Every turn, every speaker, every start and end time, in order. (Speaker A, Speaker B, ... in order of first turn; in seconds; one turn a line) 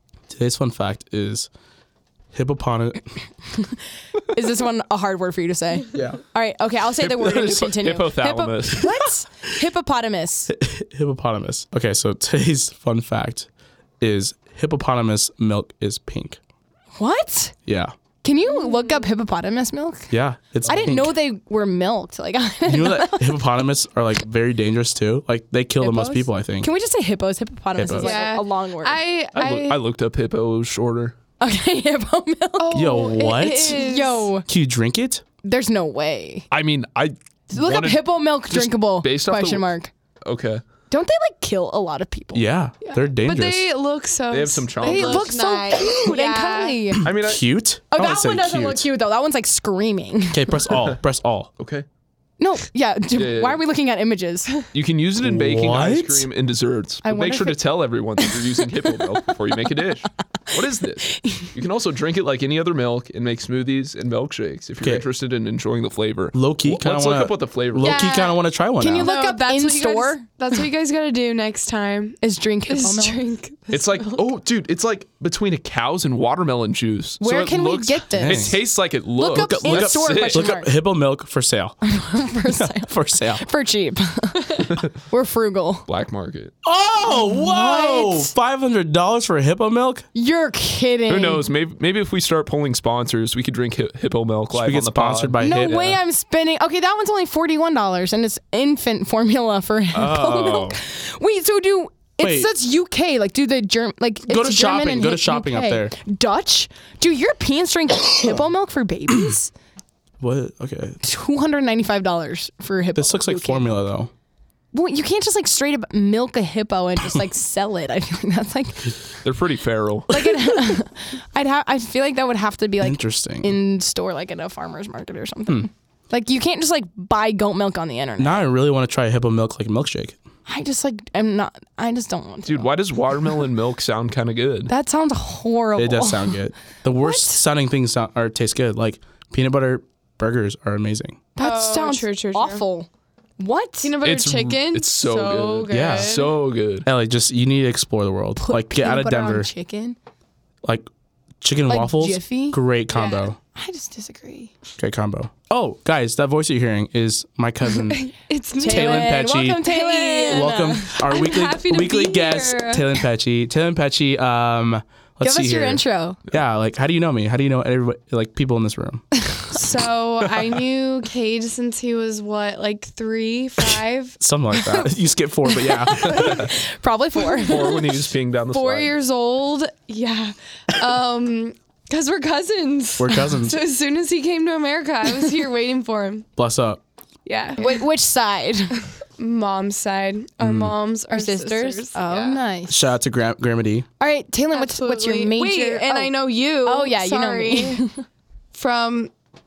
Speaker A: 0.3-1.5
Speaker A: 2.3-3.1
Speaker B: 3.5-10.5
Speaker A: 5.9-6.2
Speaker A: 7.0-7.7
Speaker C: 7.2-8.9
Speaker A: 10.5-13.5
Speaker A: 14.0-16.4
Speaker B: 17.0-17.6
Speaker A: 17.6-17.9
Speaker B: 18.2-20.1
Speaker D: 18.5-19.1
Speaker A: 20.1-21.2
Speaker B: 20.6-23.5
Speaker A: 22.6-26.7
Speaker B: 25.8-29.0
Speaker A: 27.8-28.2
Speaker D: 28.0-29.8
Speaker C: 29.4-31.2
Speaker B: 31.4-34.5
Speaker D: 32.6-34.3
Speaker A: 32.7-35.2
Speaker B: 35.4-36.5
Speaker C: 36.5-39.7
Speaker B: 37.5-39.9
Speaker C: 40.2-40.6
Speaker B: 40.9-42.5
Speaker A: 42.3-43.7
Speaker D: 42.9-46.9
Speaker C: 44.3-45.3
Speaker B: 44.8-47.1
Speaker C: 47.0-47.4
Speaker A: 47.1-48.9
Speaker B: 47.9-50.7
Speaker A: 50.3-51.5
Speaker C: 51.6-51.9
Speaker B: 52.4-54.5
Speaker C: 53.2-53.6
Speaker C: 54.7-68.0
Speaker A: 55.2-56.3
Speaker B: 57.0-57.6
Speaker B: 58.2-59.8
Speaker B: 60.5-61.5
Speaker A: 66.3-69.1
Speaker D: 67.8-68.4
Speaker B: 68.8-70.3
Speaker D: 69.0-74.3
Speaker B: 72.2-73.2
Speaker C: 73.7-80.5
Speaker B: 77.2-78.6
Speaker A: 78.2-78.6
Speaker B: 79.2-80.8
Speaker A: 79.2-81.8
Speaker B: 81.8-85.9
Speaker A: 82.5-83.5
Speaker C: 85.9-86.5
Speaker A: 86.6-90.1
Speaker B: 87.0-88.3
Speaker B: 90.2-91.5
Speaker C: 91.1-95.4
Speaker A: 94.5-96.0
Speaker B: 95.4-109.5
Speaker A: 99.9-100.7
Speaker C: 100.4-100.8
Speaker A: 102.2-102.5
Speaker A: 104.3-106.0
Speaker A: 110.2-111.0
Speaker B: 111.0-113.8
Speaker A: 113.0-114.1
Speaker B: 114.7-119.0
Speaker C: 119.2-120.1
Speaker B: 120.1-128.4
Speaker A: 120.2-120.8
Speaker A: 122.8-123.6
Speaker A: 128.2-130.2
Speaker B: 130.5-132.7
Speaker C: 132.4-134.7
Speaker B: 134.7-136.4
Speaker A: 135.8-141.2
Speaker B: 137.0-137.4
Speaker B: 141.4-142.9
Speaker D: 141.4-142.7
Speaker B: 143.4-143.9
Speaker D: 143.8-146.4
Speaker C: 144.0-146.9
Speaker A: 145.7-146.2
Speaker A: 146.8-149.5
Speaker B: 148.4-150.0
Speaker A: 150.6-150.9
Speaker A: 151.4-153.4
Speaker B: 151.7-152.6
Speaker D: 152.9-153.3
Speaker B: 153.5-154.5
Speaker A: 154.8-158.1
Speaker D: 157.9-163.0
Speaker B: 158.6-161.0
Speaker A: 158.6-159.7
Speaker A: 160.2-169.0
Speaker B: 165.2-166.2
Speaker B: 169.2-169.5
Speaker D: 169.5-174.2
Speaker A: 174.2-176.5
Speaker B: 174.6-174.9
Speaker B: 175.4-177.9
Speaker C: 176.1-176.5
Speaker D: 177.4-177.8
Speaker C: 177.4-178.9
Speaker D: 178.5-186.3
Speaker A: 183.0-183.6
Speaker A: 186.4-186.8
Speaker D: 187.3-187.8
Speaker B: 187.6-188.8
Speaker D: 189.2-192.4
Speaker A: 190.4-190.7
Speaker B: 191.1-192.9
Speaker A: 192.7-193.9
Speaker B: 194.0-198.0
Speaker D: 194.5-197.8
Speaker D: 198.5-199.1